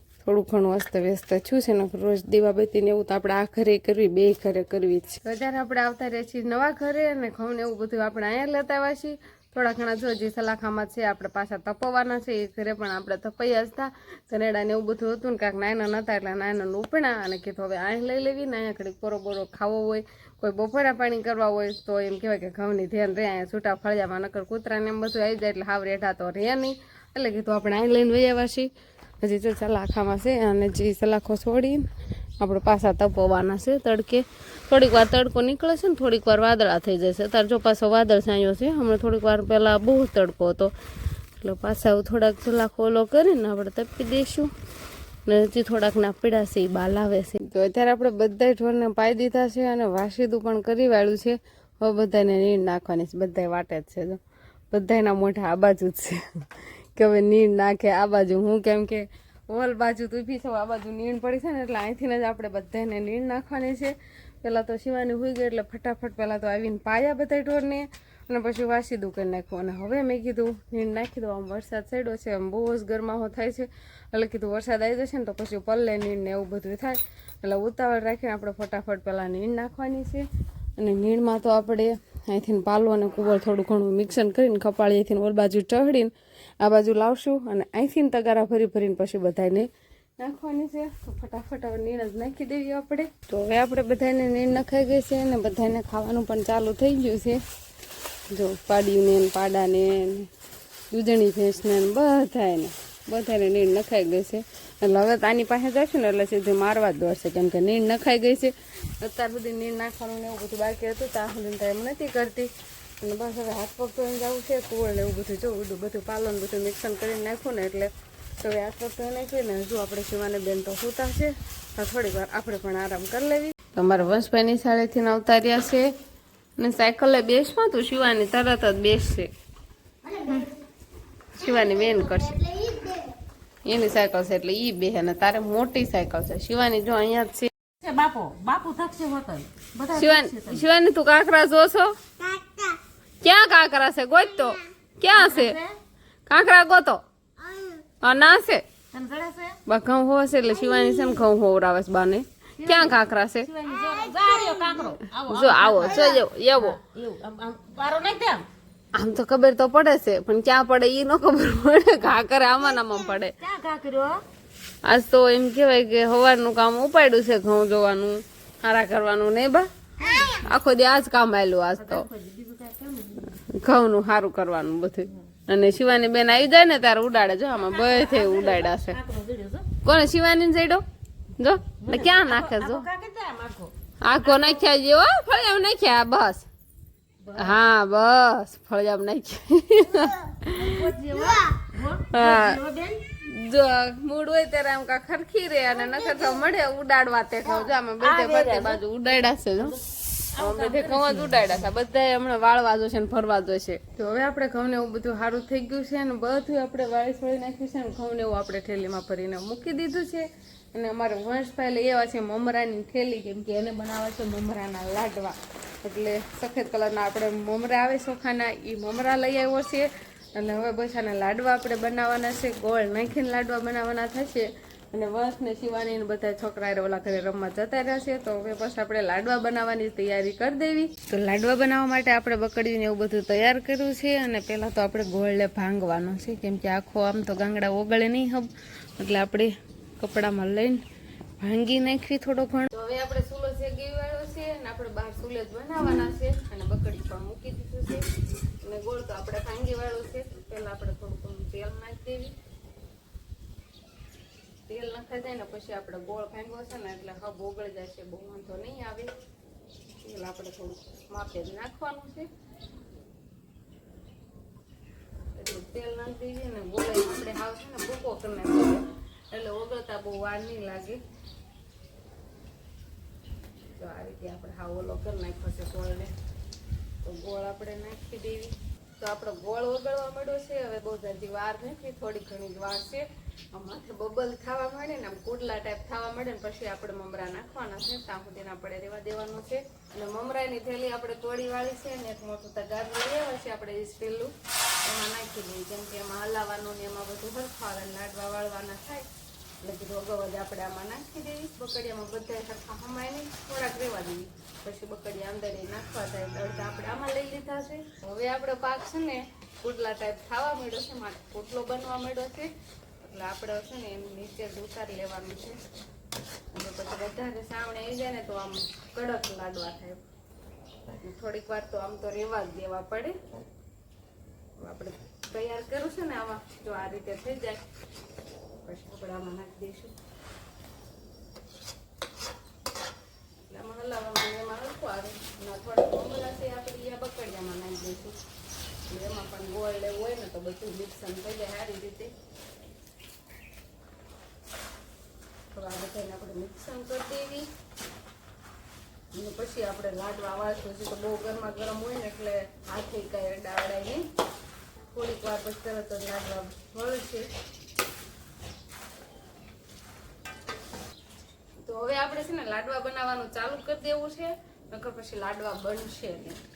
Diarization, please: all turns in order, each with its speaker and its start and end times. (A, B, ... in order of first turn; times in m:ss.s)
0:00.2-0:31.9 A
0:32.4-0:40.7 A
0:41.4-0:44.5 A
0:45.2-1:20.3 A
1:20.8-1:29.7 A
1:30.2-1:37.4 A
1:38.3-1:40.3 A
1:40.9-2:05.9 A
2:06.6-2:09.3 A
2:10.0-2:10.6 B
2:11.3-2:12.8 A
2:13.6-2:17.5 A
2:17.8-2:20.6 B
2:19.9-2:22.0 A
2:23.2-2:25.6 A
2:25.1-2:25.8 B
2:26.3-2:27.0 A
2:28.0-2:28.6 A
2:28.9-2:29.6 B
2:29.6-2:33.5 A
2:32.6-2:38.5 B
2:35.3-2:36.8 A
2:38.9-2:43.4 A
2:43.4-2:44.2 B
2:44.8-2:49.7 A
2:50.0-2:50.5 B
2:50.2-2:52.1 A
2:51.8-2:53.4 B
2:53.3-2:59.0 A
2:57.5-2:59.7 B
2:59.8-3:00.8 A
3:01.4-3:02.9 A
3:01.8-3:04.7 B
3:04.0-3:06.5 A
3:07.2-3:07.6 B
3:07.3-3:11.0 A
3:10.4-3:13.1 B
3:12.1-3:12.6 A
3:13.2-3:19.8 A
3:17.6-3:18.8 B
3:20.3-3:21.7 B
3:20.3-4:00.8 A
4:01.4-4:08.0 A
4:08.6-4:12.3 A
4:14.7-4:19.1 A
4:20.0-4:22.3 A
4:25.3-4:31.0 A
4:33.8-4:36.1 A
4:37.0-4:54.3 A
4:54.8-4:59.0 A
4:59.6-5:15.6 A
5:16.5-5:20.0 A
5:21.0-5:23.2 A
5:24.6-5:27.6 A
5:28.6-5:29.9 A
5:33.5-5:38.1 A
5:38.9-5:42.1 A
5:45.5-5:47.5 A
5:49.1-5:54.0 A
5:54.9-5:57.3 A
6:01.6-6:06.4 A